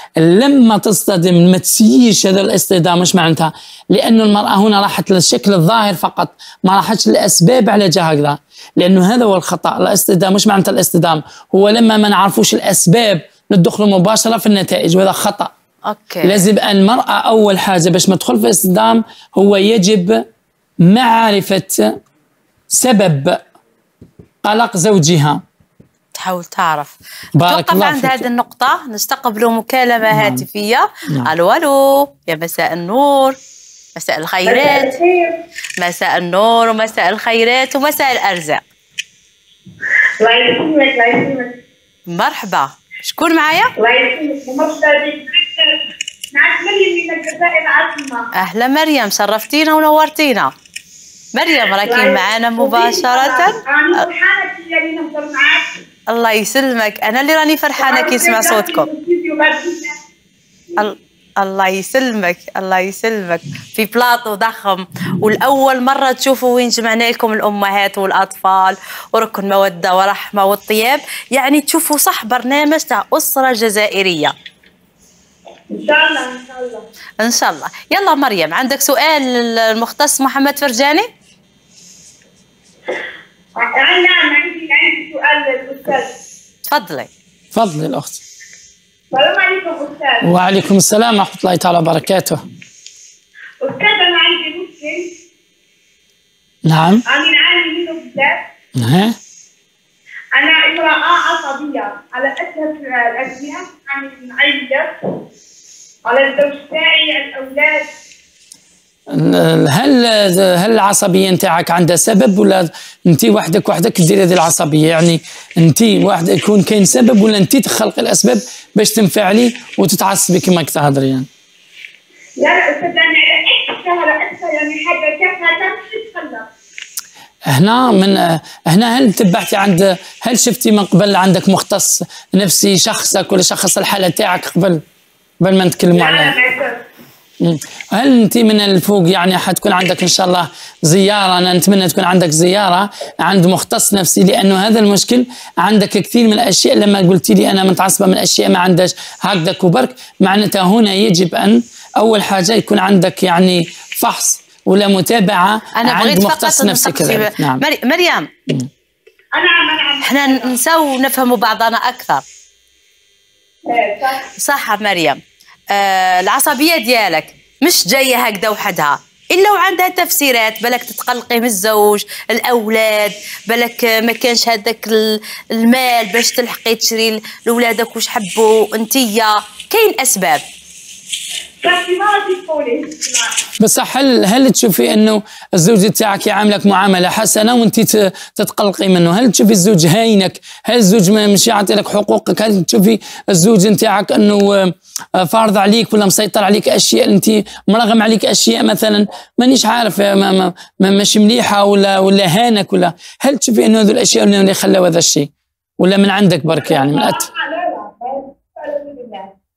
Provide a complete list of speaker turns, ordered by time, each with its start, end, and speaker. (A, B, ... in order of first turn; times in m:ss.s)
0:00.2-0:15.5 A
0:15.8-0:16.5 B
0:16.2-0:20.2 A
0:20.8-0:21.9 A
0:22.7-0:23.4 A
0:24.4-0:25.4 A
0:26.1-0:26.9 B
0:27.4-0:28.2 A
0:27.4-0:33.4 B
0:30.0-0:30.4 A
0:34.0-0:34.9 B
0:34.4-0:35.4 C
0:35.8-0:38.6 B
0:39.8-0:41.6 C
0:42.1-0:43.7 B
0:43.8-0:48.3 C
0:48.3-0:50.5 B
0:51.3-0:54.0 B
0:51.8-0:55.7 C
0:56.1-0:58.9 B
0:57.8-1:00.0 C
1:00.8-1:14.3 B
1:15.7-1:16.8 C
1:17.2-1:21.1 B
1:23.5-1:26.1 C
1:26.7-1:27.1 B
1:27.5-1:28.2 A
1:29.1-1:30.3 C
1:30.2-1:32.4 A
1:33.6-1:35.1 C
1:36.6-1:37.0 A
1:37.1-1:38.4 C
1:38.8-1:39.2 A
1:40.3-1:45.0 C
1:46.1-1:47.9 C
1:49.1-2:01.3 A
2:02.4-2:06.5 C
2:07.5-2:14.8 A
2:15.4-2:16.4 A
2:15.9-2:16.8 C
2:17.4-2:37.6 A
2:35.8-2:38.3 B
2:39.3-2:40.6 C
2:40.0-2:42.2 B
2:43.6-2:44.2 C
2:44.4-3:00.4 B
3:01.6-3:03.4 C
3:03.6-3:27.2 A
3:26.6-3:29.3 C